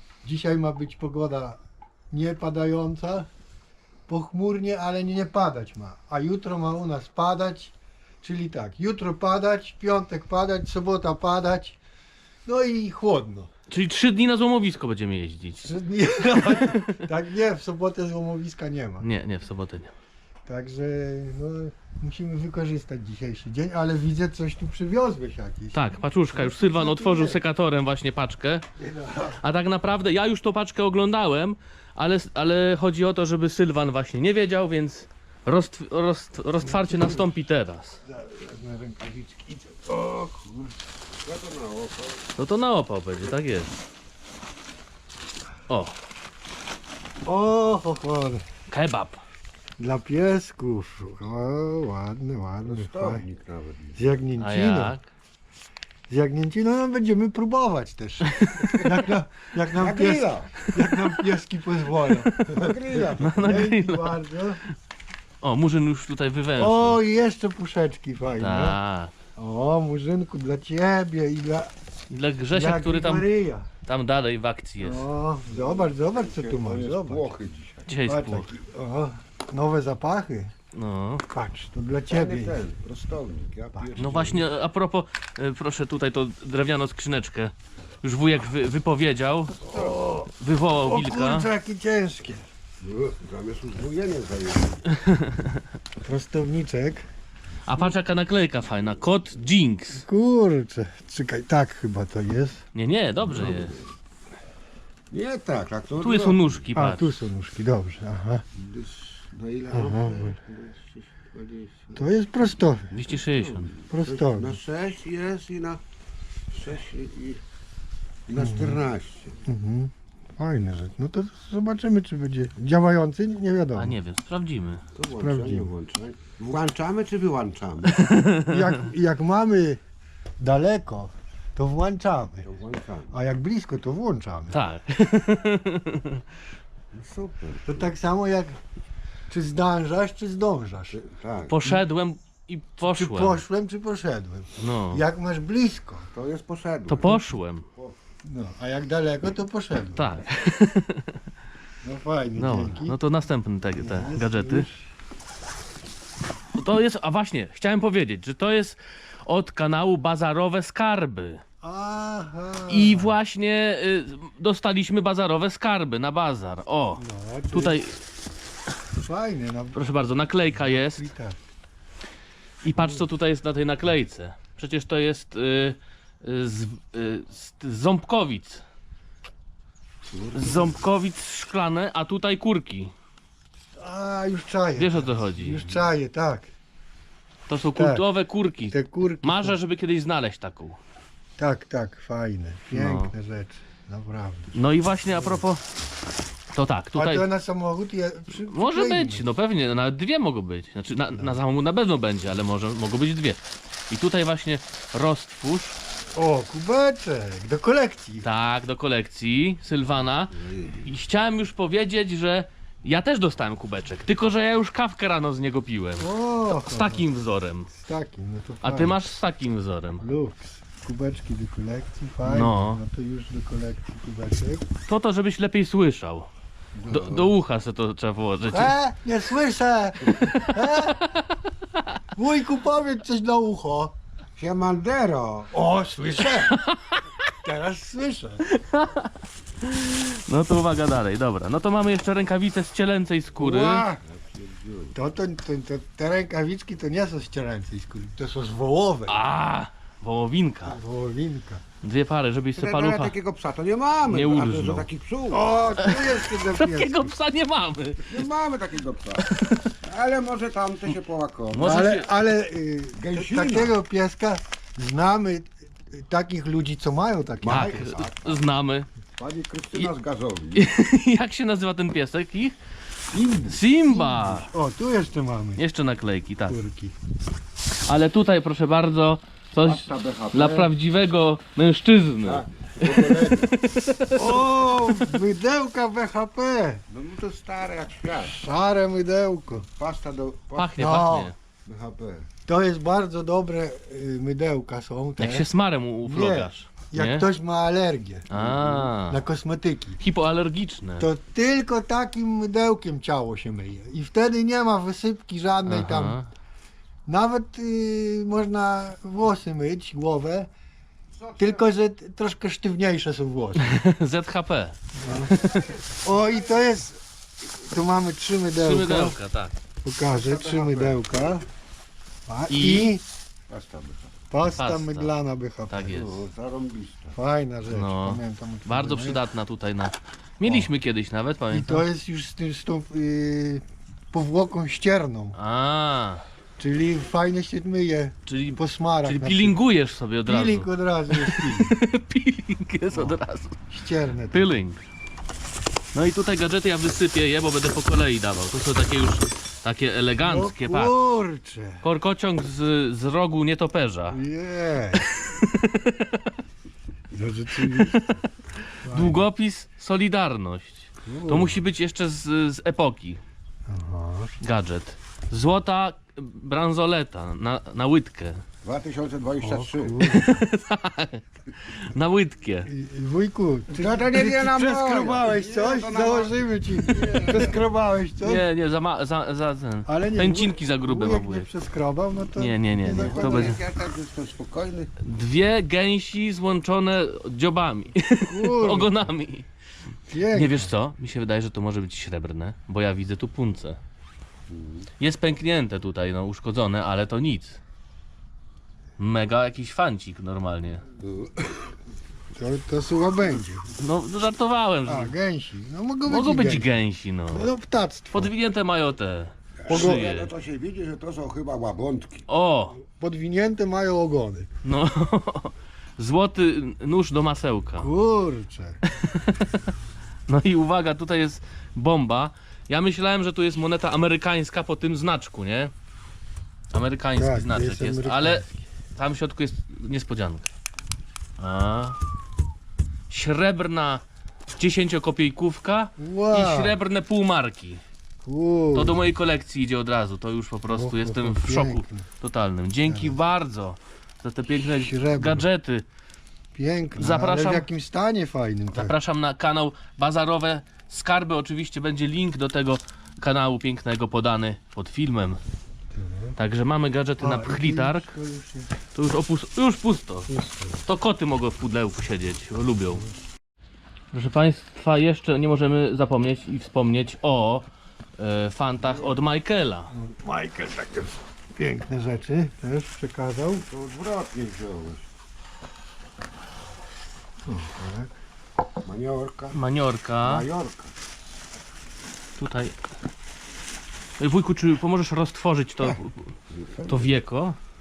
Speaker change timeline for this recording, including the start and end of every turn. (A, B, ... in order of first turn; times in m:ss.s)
0:00.2-0:03.3 A
0:04.1-0:11.8 A
0:12.5-0:13.5 A
0:13.7-0:17.0 B
0:15.6-0:19.1 A
0:19.0-0:19.9 B
0:20.5-0:27.4 A
0:25.7-0:28.6 B
0:28.8-0:29.4 A
0:29.4-0:38.0 B
0:36.6-0:37.3 A
0:38.0-0:40.7 A
0:41.2-0:42.3 C
0:42.4-0:43.7 B
0:45.7-0:45.9 B
0:47.2-0:48.4 A
0:48.7-0:49.2 B
0:49.8-0:53.2 A
0:52.6-0:54.0 C
0:54.0-0:55.0 A
0:54.4-0:55.1 B
0:56.1-1:04.6 A
0:58.3-0:58.8 B
0:59.8-1:00.5 C
1:02.5-1:03.6 C
1:03.2-1:04.2 B
1:05.4-1:07.0 B
1:06.6-1:08.8 A
1:08.3-1:09.1 B
1:09.4-1:11.7 A
1:12.1-1:13.3 B
1:12.5-1:13.7 A
1:13.9-1:15.0 B
1:14.8-1:17.4 A
1:15.5-1:17.8 C
1:17.9-1:18.5 B
1:18.0-1:20.5 A
1:20.7-1:21.2 B
1:21.3-1:22.6 A
1:22.1-1:24.4 C
1:23.8-1:24.2 A
1:24.0-1:29.6 B
1:29.6-1:30.1 C
1:29.7-1:32.5 A
1:30.4-1:31.5 B
1:32.8-1:34.8 C
1:35.0-1:35.6 B
1:36.0-1:37.1 A
1:37.7-1:40.0 B
1:39.9-1:42.6 A
1:42.7-1:43.8 B
1:43.3-1:43.8 C
1:45.1-1:46.6 C
1:46.0-1:47.1 B
1:46.8-1:48.4 A
1:48.6-1:52.0 C
1:49.7-1:50.4 A
1:52.0-1:53.0 A
1:52.9-1:53.7 B
1:53.1-1:55.8 C
1:53.9-1:54.6 A
1:56.5-1:57.4 C
1:58.3-1:59.4 C
1:58.4-1:58.8 A
1:59.5-2:04.0 A
2:03.8-2:04.8 B
2:05.0-2:08.2 C
2:05.2-2:05.7 A
2:07.9-2:08.6 B
2:08.4-2:09.8 A
2:10.4-2:12.5 A
2:12.4-2:13.2 C
2:13.1-2:14.6 A
2:14.5-2:16.2 B
2:16.9-2:17.9 C
2:17.6-2:18.6 A
2:19.3-2:21.0 A
2:20.9-2:21.6 C
2:21.5-2:23.4 B
2:22.8-2:26.1 A
2:24.6-2:25.0 B
2:26.1-2:28.0 C
2:26.9-2:27.7 B
2:28.2-2:30.2 A
2:30.0-2:31.2 B
2:31.8-2:33.0 A
2:32.4-2:34.7 B
2:33.8-2:34.9 A
2:36.6-2:41.4 B
2:41.6-2:43.2 A
2:42.7-2:48.0 B
2:47.0-2:47.8 A
2:49.0-2:49.8 A
2:49.7-2:51.1 B
2:50.5-2:51.4 A
2:52.6-2:58.6 B
2:52.8-2:53.0 A
3:00.0-3:00.8 C
3:00.3-3:02.9 B
3:03.8-3:06.5 A
3:04.8-3:05.8 B
3:07.5-3:10.8 B
3:07.6-3:08.1 A
3:08.7-3:09.6 A
3:11.4-3:15.4 A
3:12.7-3:13.1 B
3:14.5-3:15.6 B
3:16.5-3:17.3 B
3:17.0-3:19.3 A
3:18.4-3:25.8 B
3:26.2-3:28.3 A
3:28.2-3:37.7 B
3:30.4-3:30.9 C
3:36.0-3:37.1 A
3:37.7-3:39.0 A
3:38.6-3:40.0 B
3:40.0-3:44.7 A
3:42.2-3:42.8 B
3:44.9-3:46.3 B
3:46.8-3:47.3 C
3:46.9-3:48.8 B
3:48.5-3:51.0 A
3:50.0-3:51.8 B
3:52.2-3:54.0 A
3:54.4-3:55.5 C
3:55.5-3:56.6 A
3:56.2-3:57.2 B
3:57.4-3:58.4 A
3:58.5-4:03.9 B
4:03.4-4:05.0 C
4:05.0-4:09.3 A
4:09.1-4:10.8 B
4:10.7-4:11.6 A
4:11.8-4:13.2 B
4:12.6-4:15.6 C
4:14.1-4:14.9 B
4:15.3-4:17.1 A
4:15.8-4:18.3 B
4:18.1-4:19.3 C
4:19.2-4:19.7 B
4:19.8-4:21.8 C
4:21.5-4:22.2 B
4:21.6-4:27.8 A
4:23.0-4:23.8 C
4:27.4-4:28.5 C
4:27.5-4:28.9 B
4:29.2-4:30.6 C
4:30.6-4:32.6 B
4:33.1-4:33.6 C
4:33.5-4:34.5 B
4:33.9-4:35.6 A
4:35.6-4:36.6 B
4:36.5-4:37.0 A
4:37.9-4:45.2 B
4:39.6-4:40.7 C
4:42.2-4:43.5 C
4:44.1-4:46.8 A
4:46.9-4:48.4 C
4:48.3-4:49.7 A
4:49.8-4:50.7 C
4:50.6-4:51.4 B
4:50.8-4:51.3 A
4:51.7-4:52.3 C
4:52.5-4:55.5 A
4:55.2-4:57.3 B
4:56.0-4:58.3 A
4:58.3-4:59.2 B
4:58.3-4:58.8 C
4:59.1-5:00.0 A
5:00.0-5:01.1 B
5:01.0-5:06.2 A
5:05.7-5:06.3 B
5:07.1-5:10.5 A
5:11.4-5:13.8 A
5:13.6-5:14.8 B
5:15.0-5:15.4 A
5:15.3-5:15.7 B
5:16.0-5:19.2 A
5:18.6-5:19.5 B
5:19.8-5:21.5 A
5:20.1-5:21.0 C
5:22.3-5:23.0 A
5:22.5-5:22.9 B
5:23.5-5:24.2 C
5:24.3-5:26.0 A
5:24.4-5:25.1 B
5:25.7-5:26.2 B
5:25.9-5:27.2 C
5:27.2-5:29.2 A
5:27.7-5:31.9 B
5:30.4-5:30.7 A
5:31.5-5:35.4 A
5:35.4-5:36.2 B
5:36.6-5:39.6 A
5:38.3-5:43.6 B
5:40.3-5:41.8 A
5:42.9-5:44.6 A
5:44.3-5:44.8 B
5:45.9-5:51.0 B
5:50.2-5:51.8 A
5:51.8-5:54.2 B
5:54.1-5:55.1 A
5:55.0-5:56.3 B
5:57.1-5:58.1 A
5:57.6-6:03.2 B
5:58.8-5:59.2 A
6:01.0-6:01.6 A
6:03.7-6:04.4 A
6:04.4-6:08.4 B
6:08.6-6:10.2 C
6:09.4-6:10.4 A
6:10.0-6:12.7 B
6:12.7-6:18.5 A
6:13.7-6:17.6 C
6:18.2-6:21.5 B
6:19.9-6:23.6 A
6:22.3-6:23.6 B
6:22.8-6:24.9 C
6:25.0-6:29.5 B
6:28.2-6:29.1 A
6:30.1-6:30.7 A
6:30.3-6:33.8 B
6:34.5-6:34.9 C
6:35.0-6:37.6 B
6:39.0-6:40.8 B
6:41.0-6:41.7 C
6:42.3-6:43.7 A
6:43.8-6:45.1 B
6:44.9-6:48.3 A
6:46.1-6:47.5 B
6:48.1-6:50.3 B
6:49.6-6:52.2 C
6:49.7-6:50.1 A
6:52.3-6:52.8 B
6:52.8-6:54.5 A
6:54.6-6:57.9 B
6:57.8-6:58.8 A
6:58.9-6:59.6 B
7:00.3-7:05.7 B
7:06.7-7:08.4 B
7:07.1-7:08.7 A
7:09.0-7:10.5 B
7:11.4-7:12.0 B
7:13.1-7:14.0 B
7:14.6-7:17.8 B
7:16.0-7:16.8 A
7:18.2-7:19.1 A
7:18.7-7:25.8 B
7:20.7-7:22.1 A
7:22.8-7:23.2 A
7:24.5-7:25.5 A
7:26.6-7:29.0 A
7:27.0-7:27.7 B
7:28.7-7:35.4 B
7:35.9-7:36.4 A
7:36.4-7:38.1 B
7:37.2-7:38.7 A
7:38.9-7:40.3 B
7:40.3-7:40.8 A
7:40.8-7:43.0 B
7:44.1-7:47.7 B
7:48.2-7:49.9 B
7:49.9-7:53.7 A
7:53.7-7:55.1 C
7:57.4-7:58.1 A
7:58.8-7:59.6 C
7:59.5-8:00.5 B
8:00.2-8:00.9 C
8:02.4-8:02.7 B
8:04.2-8:06.3 B
8:06.5-8:07.2 C
8:06.9-8:07.6 B